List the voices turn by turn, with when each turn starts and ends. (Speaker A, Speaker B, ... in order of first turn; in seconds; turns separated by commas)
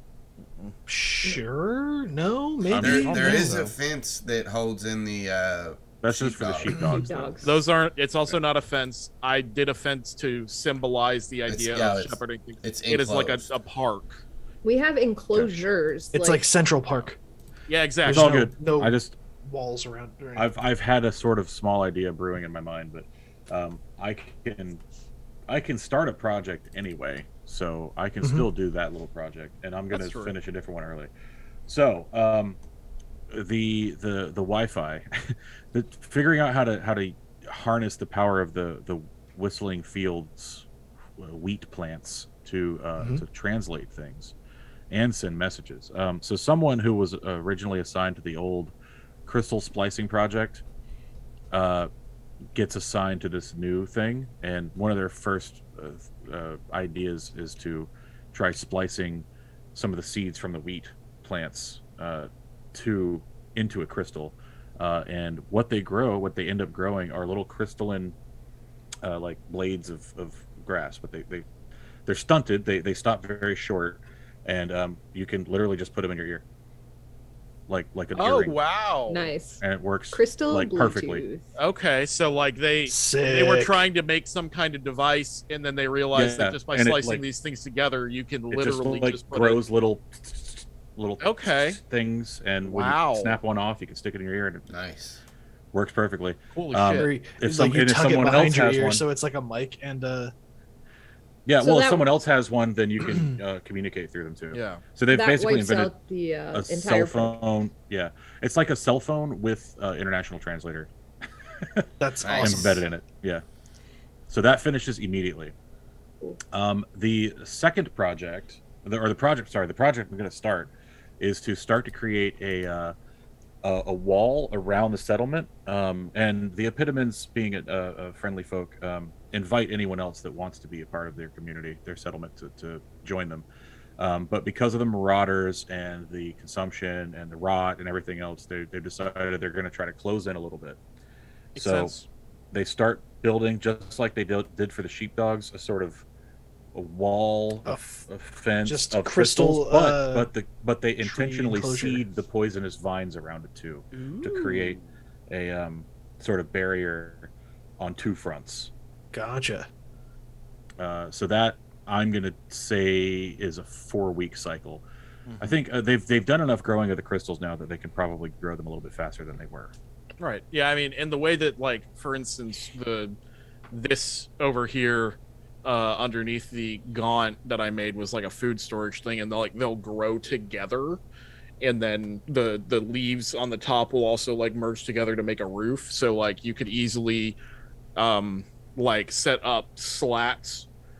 Speaker A: 0.9-3.7, Speaker B: 2.7-3.7, Speaker C: 2.8-7.1, Speaker B: 6.0-7.6, Speaker D: 7.0-7.5, Speaker E: 7.4-14.2, Speaker C: 11.5-13.4, Speaker D: 14.6-16.4, Speaker B: 15.3-15.7, Speaker A: 16.1-17.2, Speaker E: 17.7-18.4, Speaker A: 18.1-20.5, Speaker B: 18.1-19.1, Speaker B: 20.4-24.8, Speaker B: 25.5-31.1, Speaker A: 28.2-28.5, Speaker E: 29.9-30.3, Speaker B: 31.7-32.6, Speaker B: 33.3-40.6, Speaker B: 41.2-44.3, Speaker A: 43.0-43.2, Speaker B: 44.9-48.7, Speaker B: 49.2-50.6, Speaker B: 51.5-51.9, Speaker B: 52.5-68.2, Speaker B: 69.0-71.5, Speaker B: 72.1-76.4, Speaker B: 77.7-78.6, Speaker E: 78.1-79.3, Speaker D: 79.1-81.4, Speaker B: 79.6-81.2, Speaker E: 81.6-89.6, Speaker A: 82.8-83.8, Speaker B: 86.1-87.2, Speaker B: 88.5-94.7, Speaker E: 91.2-91.8, Speaker E: 92.6-93.4, Speaker C: 94.7-95.2, Speaker B: 95.7-99.0, Speaker E: 96.5-97.1, Speaker A: 97.0-100.3, Speaker B: 101.5-105.9, Speaker D: 101.6-102.1, Speaker E: 104.5-104.8, Speaker D: 105.1-107.4, Speaker B: 106.5-110.9, Speaker B: 111.4-113.4, Speaker A: 112.0-112.8, Speaker E: 112.2-112.7, Speaker B: 114.3-115.5, Speaker B: 116.5-122.9, Speaker B: 123.6-133.4, Speaker B: 134.0-140.8, Speaker E: 141.5-142.1, Speaker B: 141.6-141.9, Speaker B: 142.5-146.0, Speaker B: 146.7-158.7, Speaker A: 147.6-148.1, Speaker A: 148.6-150.3, Speaker A: 151.0-152.0, Speaker E: 153.9-154.8, Speaker A: 159.1-159.7, Speaker B: 160.8-164.8, Speaker E: 165.3-165.6, Speaker B: 165.4-169.7, Speaker E: 170.2-173.2, Speaker E: 173.7-181.0, Speaker E: 181.6-187.4, Speaker E: 187.9-190.7